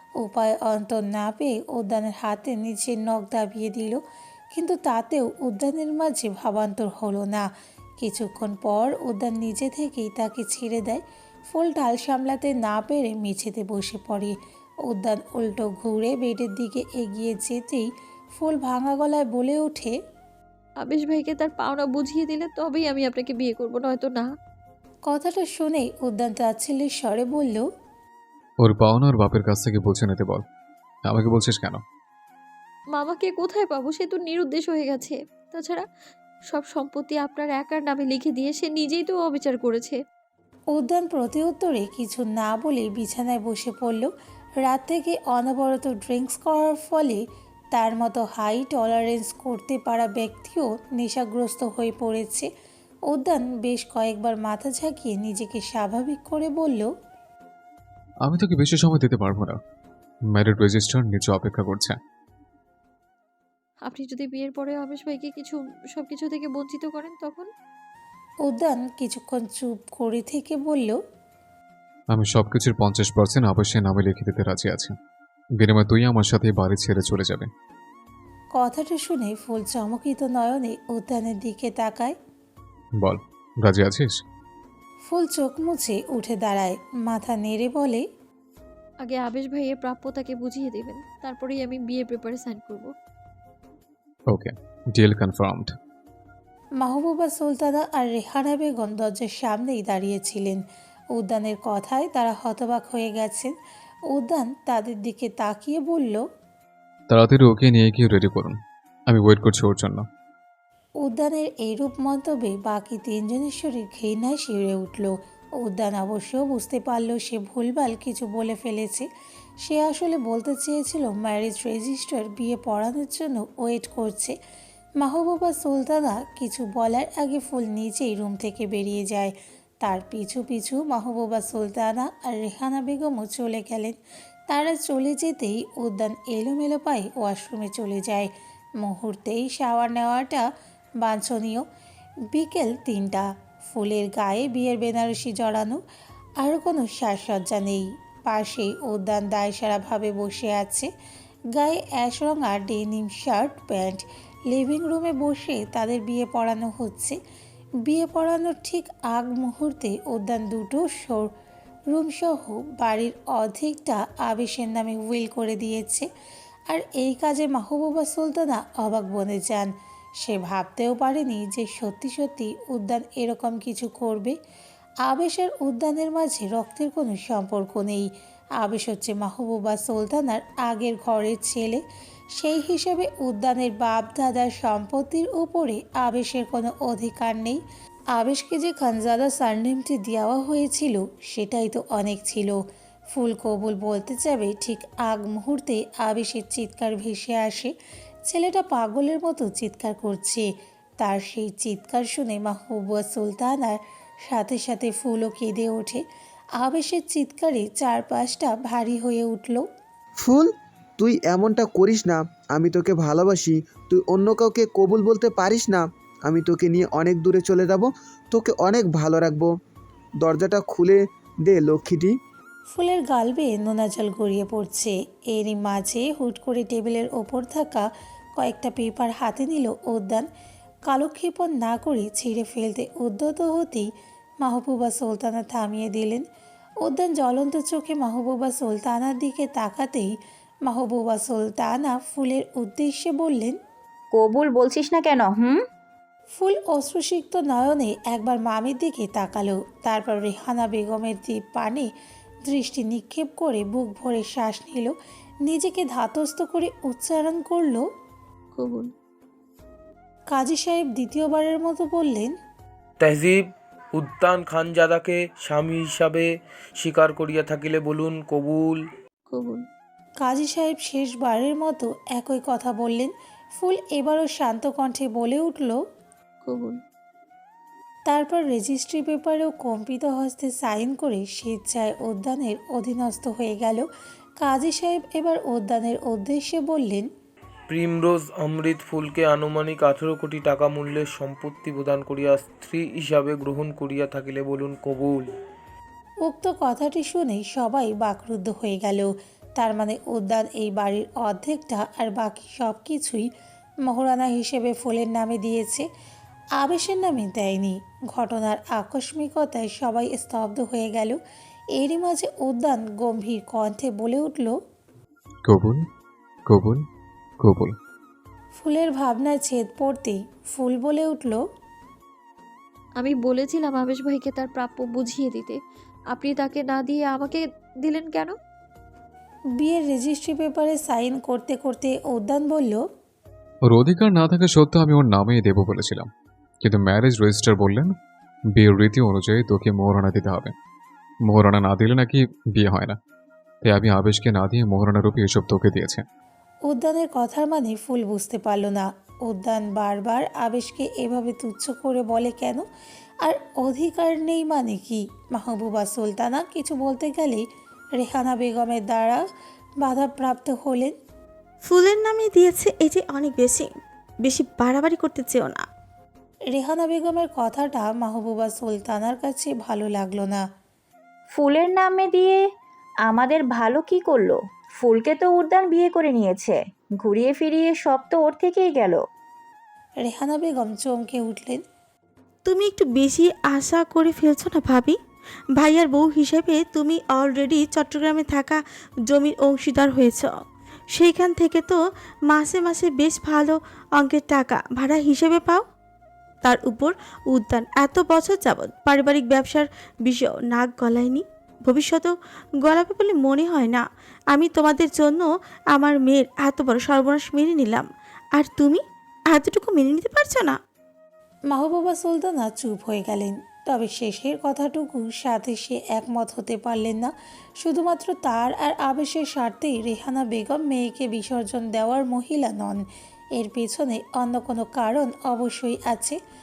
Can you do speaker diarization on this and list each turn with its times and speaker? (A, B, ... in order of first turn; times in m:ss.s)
0:00.2-0:04.0 A
0:04.5-0:07.5 A
0:08.0-0:14.4 A
0:14.9-0:20.0 A
0:20.8-0:24.3 B
0:25.1-0:27.6 A
0:28.6-0:30.4 C
0:31.1-0:31.8 C
0:32.9-0:35.9 B
0:36.5-0:40.0 B
0:40.7-0:52.5 A
0:53.1-0:56.9 A
0:58.2-0:59.6 C
1:00.3-1:02.0 C
1:03.8-1:07.5 B
1:08.4-1:11.0 A
1:12.1-1:15.0 C
1:15.6-1:17.5 C
1:18.6-1:22.2 A
1:23.0-1:24.2 C
1:25.1-1:28.0 A
1:29.0-1:32.9 B
1:34.3-1:35.7 C
1:36.8-1:40.6 A
1:41.1-1:43.5 A
1:44.1-1:46.2 A
1:47.1-1:48.6 C
1:49.1-1:50.1 C
1:51.0-1:59.1 A
1:59.6-2:04.4 A
2:05.0-2:14.0 A
2:14.5-2:20.5 A
2:21.0-2:21.6 A
2:22.3-2:25.8 A
2:26.4-2:30.9 A
2:31.5-2:37.2 A
2:37.8-2:41.3 A
2:41.9-2:46.1 A
2:46.7-2:54.4 A
2:55.0-2:58.1 A
2:58.6-3:01.8 A
3:02.4-3:07.6 A
3:08.1-3:12.6 A
3:13.1-3:17.7 A
3:18.3-3:20.5 A
3:21.0-3:26.0 A
3:26.6-3:29.7 A
3:30.2-3:39.5 D
3:40.2-3:42.1 D
3:42.7-3:50.3 A
3:50.9-3:53.9 A
3:54.4-3:56.2 A
3:56.8-4:00.1 A
4:00.6-4:03.6 A
4:04.1-4:05.6 E
4:06.4-4:11.9 A
4:12.5-4:17.9 A
4:18.5-4:18.9 B
4:20.3-4:22.4 A
4:23.0-4:28.8 F
4:29.3-4:29.7 B
4:30.2-4:35.8 A
4:36.4-4:36.8 B
4:38.1-4:43.9 A
4:44.4-4:47.1 A
4:47.7-4:55.3 F
4:56.2-5:03.3 A
5:03.8-5:05.9 A
5:06.6-5:11.2 A
5:11.8-5:14.6 A
5:15.5-5:15.9 C
5:16.5-5:16.9 C
5:17.4-5:17.8 C
5:18.6-5:21.4 A
5:23.0-5:25.6 B
5:26.1-5:28.4 B
5:29.6-5:32.8 A
5:33.7-5:36.1 C
5:36.6-5:37.9 C
5:38.5-5:40.5 C
5:41.3-5:43.0 C
5:43.6-5:46.0 C
5:46.7-5:52.7 A
5:53.2-5:57.5 A
5:58.0-5:59.2 A
5:59.8-6:01.0 A
6:01.6-6:03.7 G
6:04.2-6:05.6 G
6:06.5-6:10.5 A
6:11.3-6:12.4 E
6:13.1-6:19.0 E
6:20.0-6:21.6 A
6:22.5-6:25.0 G
6:25.6-6:30.3 G
6:30.9-6:35.6 G
6:36.4-6:48.8 G
6:49.3-6:50.6 G
6:51.5-7:02.8 A
7:03.4-7:06.2 A